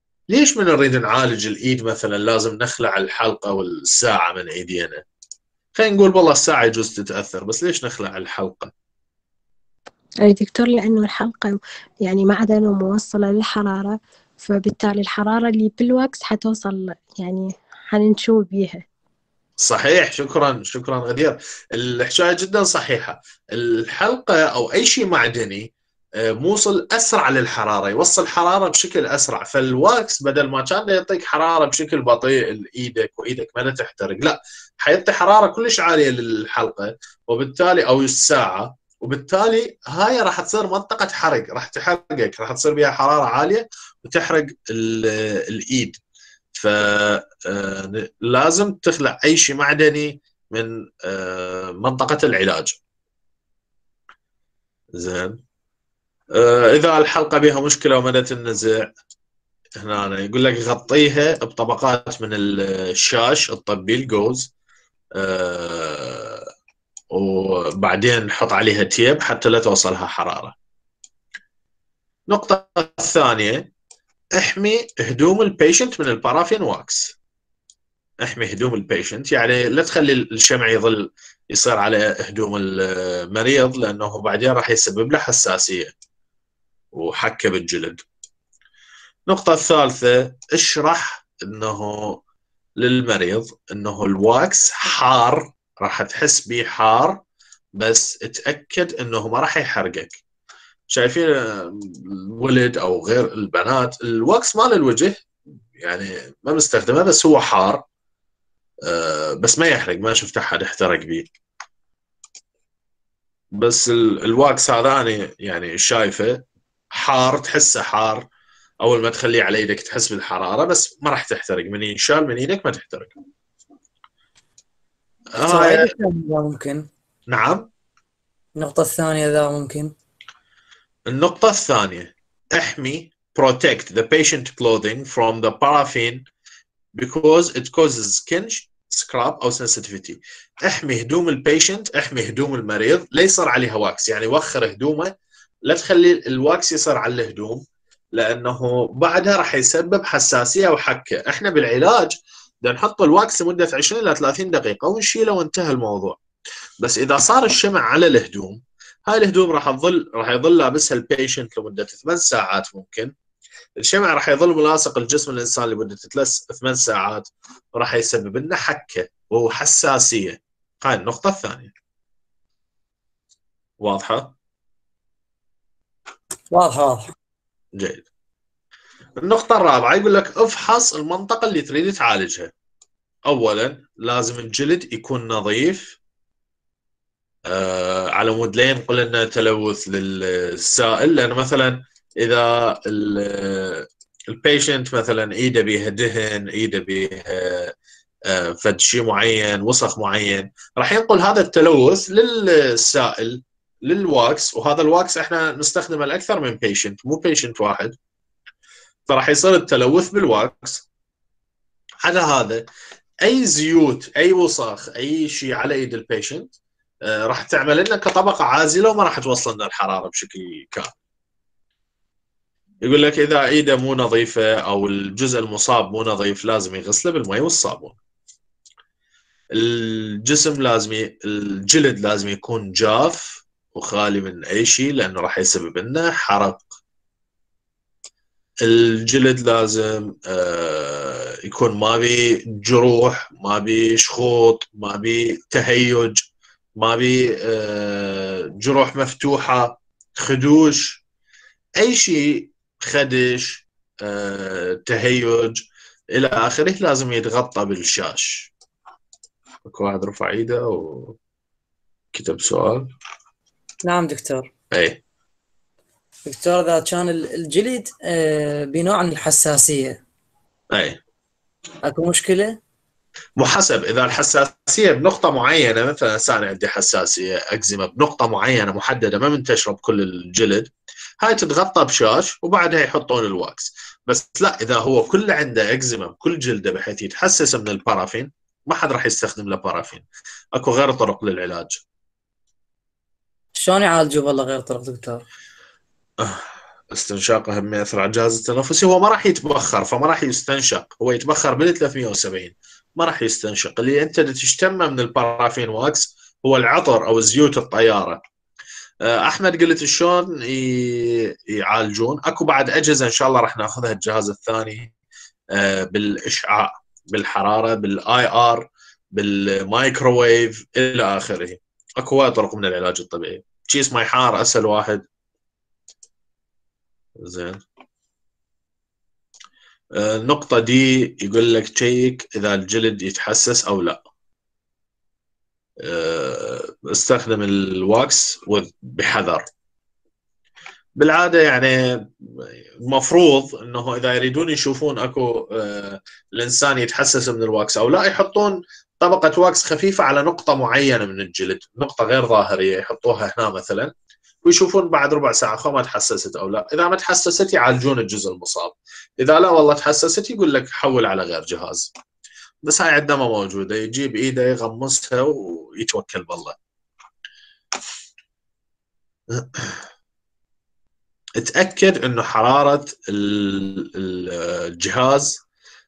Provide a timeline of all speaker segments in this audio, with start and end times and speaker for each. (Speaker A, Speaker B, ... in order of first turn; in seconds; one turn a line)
Speaker A: 0.3-5.0
Speaker A: 5.8-8.7
Speaker B: 10.2-18.8
Speaker A: 19.6-25.7
Speaker A: 26.2-46.0
Speaker A: 46.5-52.8
Speaker A: 55.0-55.4
Speaker A: 56.3-58.9
Speaker A: 59.8-64.5
Speaker A: 65.2-66.5
Speaker A: 67.1-70.5
Speaker A: 72.3-73.7
Speaker A: 74.4-77.2
Speaker A: 78.2-85.9
Speaker A: 86.9-88.0
Speaker A: 89.3-92.2
Speaker A: 92.8-97.2
Speaker A: 97.8-100.2
Speaker A: 100.9-105.2
Speaker A: 105.8-107.8
Speaker A: 108.9-111.3
Speaker A: 113.6-118.3
Speaker A: 118.8-123.1
Speaker A: 125.4-125.9
Speaker C: 125.4-126.9
Speaker A: 127.3-127.7
Speaker C: 128.6-129.9
Speaker A: 131.1-136.2
Speaker A: 136.9-145.1
Speaker A: 145.7-147.6
Speaker A: 148.2-156.2
Speaker A: 156.8-163.1
Speaker A: 163.8-171.7
Speaker A: 173.8-174.3
Speaker C: 176.5-177.1
Speaker A: 177.8-178.1
Speaker A: 179.2-182.5
Speaker A: 183.3-186.0
Speaker A: 187.5-197.7
Speaker A: 198.3-208.0
Speaker A: 209.1-210.8
Speaker A: 212.0-212.7
Speaker A: 213.2-216.5
Speaker A: 217.1-220.9
Speaker A: 222.8-228.0
Speaker A: 229.5-236.6
Speaker A: 238.6-246.2
Speaker A: 246.8-251.0
Speaker A: 251.8-258.5
Speaker A: 259.7-261.2
Speaker A: 262.1-262.9
Speaker C: 263.8-264.5
Speaker A: 264.7-265.0
Speaker C: 266.3-270.0
Speaker A: 270.7-271.0
Speaker C: 271.8-272.6
Speaker A: 273.4-280.7
Speaker A: 281.2-291.8
Speaker C: 293.6-295.2
Speaker A: 296.2-308.2
Speaker A: 309.0-314.9
Speaker A: 315.5-325.1
Speaker A: 327.2-327.6
Speaker A: 330.0-334.0
Speaker A: 335.8-339.4
Speaker A: 341.0-353.9
Speaker A: 354.4-361.9
Speaker A: 362.6-366.6
Speaker A: 369.3-369.8
Speaker A: 371.4-375.4